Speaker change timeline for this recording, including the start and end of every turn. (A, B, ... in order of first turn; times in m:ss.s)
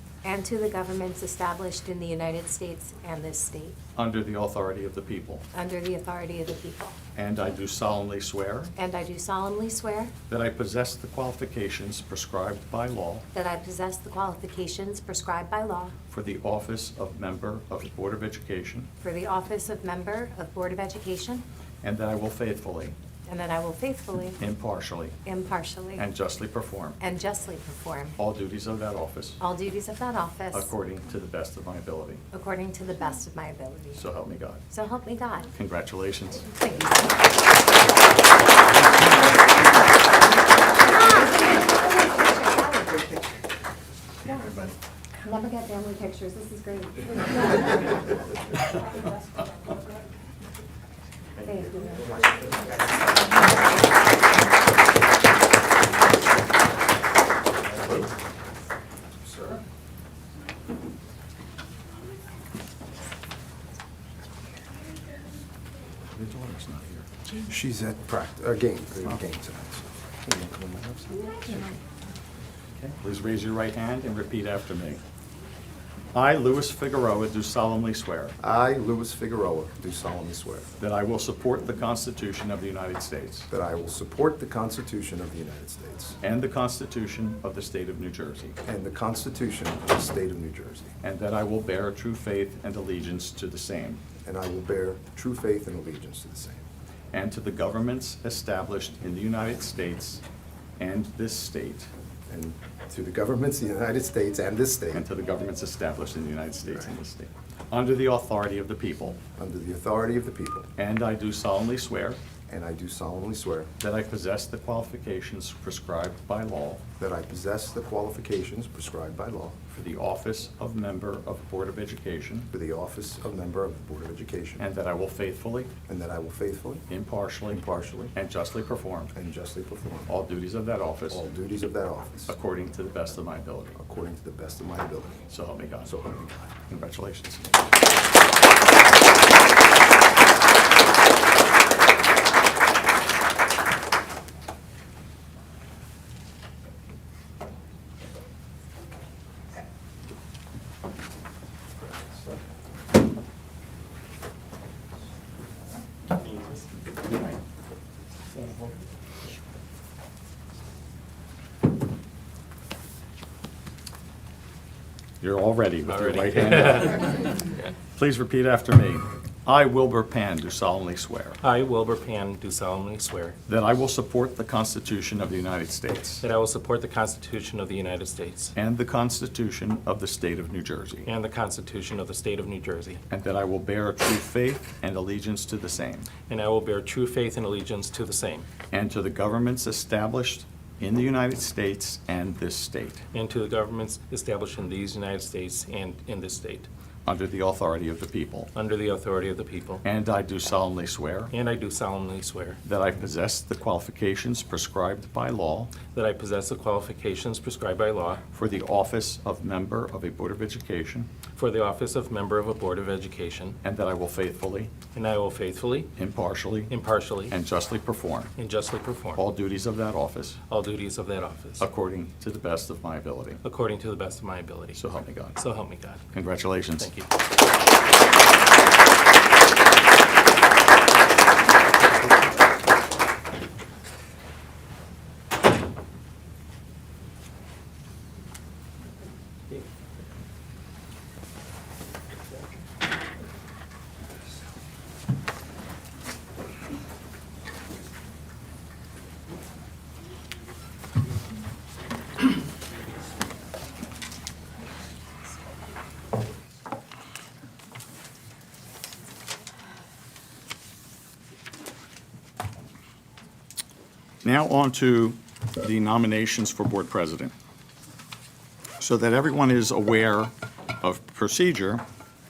0:00.2-0:03.8 A
0:04.0-0:05.4 B
0:05.5-0:07.0 A
0:07.1-0:08.7 B
0:08.8-0:10.1 A
0:10.3-0:13.2 B
0:13.3-0:15.9 A
0:16.1-0:18.9 B
0:19.0-0:21.4 A
0:21.8-0:23.0 B
0:23.3-0:24.4 A
0:24.4-0:25.2 B
0:25.2-0:26.0 A
0:26.0-0:27.0 B
0:27.0-0:28.2 A
0:28.2-0:29.4 B
0:29.4-0:30.7 A
0:30.5-0:32.2 B
0:32.3-0:34.0 A
0:34.0-0:34.6 B
0:34.7-0:35.5 A
0:35.5-0:36.5 B
0:36.5-0:37.1 A
0:39.4-0:39.8 A
0:40.4-0:43.2 A
0:44.3-0:44.6 A
0:45.2-0:47.9 A
0:51.4-0:52.1 A
0:52.0-0:52.4 C
0:59.3-0:59.6 C
1:06.2-1:07.1 B
1:07.4-1:11.5 C
1:12.8-1:15.0 B
1:16.1-1:18.4 B
1:18.4-1:20.7 C
1:20.8-1:23.5 B
1:23.5-1:26.2 C
1:26.2-1:28.6 B
1:28.6-1:30.9 C
1:31.0-1:34.0 B
1:34.2-1:36.6 C
1:37.1-1:40.2 B
1:40.8-1:41.9 B
1:42.3-1:45.1 C
1:44.9-1:49.2 B
1:46.7-1:46.9 C
1:49.4-1:50.7 C
1:50.8-1:52.2 B
1:52.5-1:53.7 C
1:53.8-1:56.8 B
1:57.0-1:59.6 C
1:59.7-2:02.5 B
2:02.5-2:04.6 C
2:04.6-2:05.7 B
2:05.9-2:06.8 C
2:06.9-2:09.1 B
2:07.5-2:08.1 C
2:09.1-2:10.1 C
2:10.1-2:11.2 B
2:11.1-2:12.3 C
2:12.3-2:13.8 B
2:13.8-2:15.2 C
2:15.3-2:15.9 B
2:15.8-2:16.5 C
2:16.7-2:17.4 B
2:45.2-2:47.3 B
2:45.9-2:47.6 D
2:47.9-2:51.4 B
2:51.4-2:53.4 D
2:53.5-2:56.2 B
2:56.2-2:58.5 D
2:58.6-3:01.1 B
3:01.0-3:03.0 D
3:03.1-3:06.1 B
3:06.2-3:08.5 D
3:08.7-3:13.0 B
3:13.1-3:16.7 D
3:17.0-3:18.5 B
3:18.5-3:19.8 D
3:19.8-3:21.3 B
3:21.3-3:22.6 D
3:22.6-3:25.8 B
3:25.8-3:28.2 D
3:28.3-3:31.1 B
3:31.3-3:33.6 D
3:33.6-3:34.8 B
3:34.9-3:35.9 D
3:36.0-3:36.7 B
3:36.7-3:37.4 D
3:37.3-3:38.3 B
3:38.4-3:39.2 D
3:39.2-3:40.4 B
3:40.5-3:41.7 D
3:41.6-3:43.4 B
3:43.4-3:44.8 D
3:44.8-3:45.4 B
3:45.4-3:46.1 D
3:46.1-3:46.9 B
3:46.8-3:47.1 D
4:24.2-4:27.3 B
4:28.8-4:31.8 B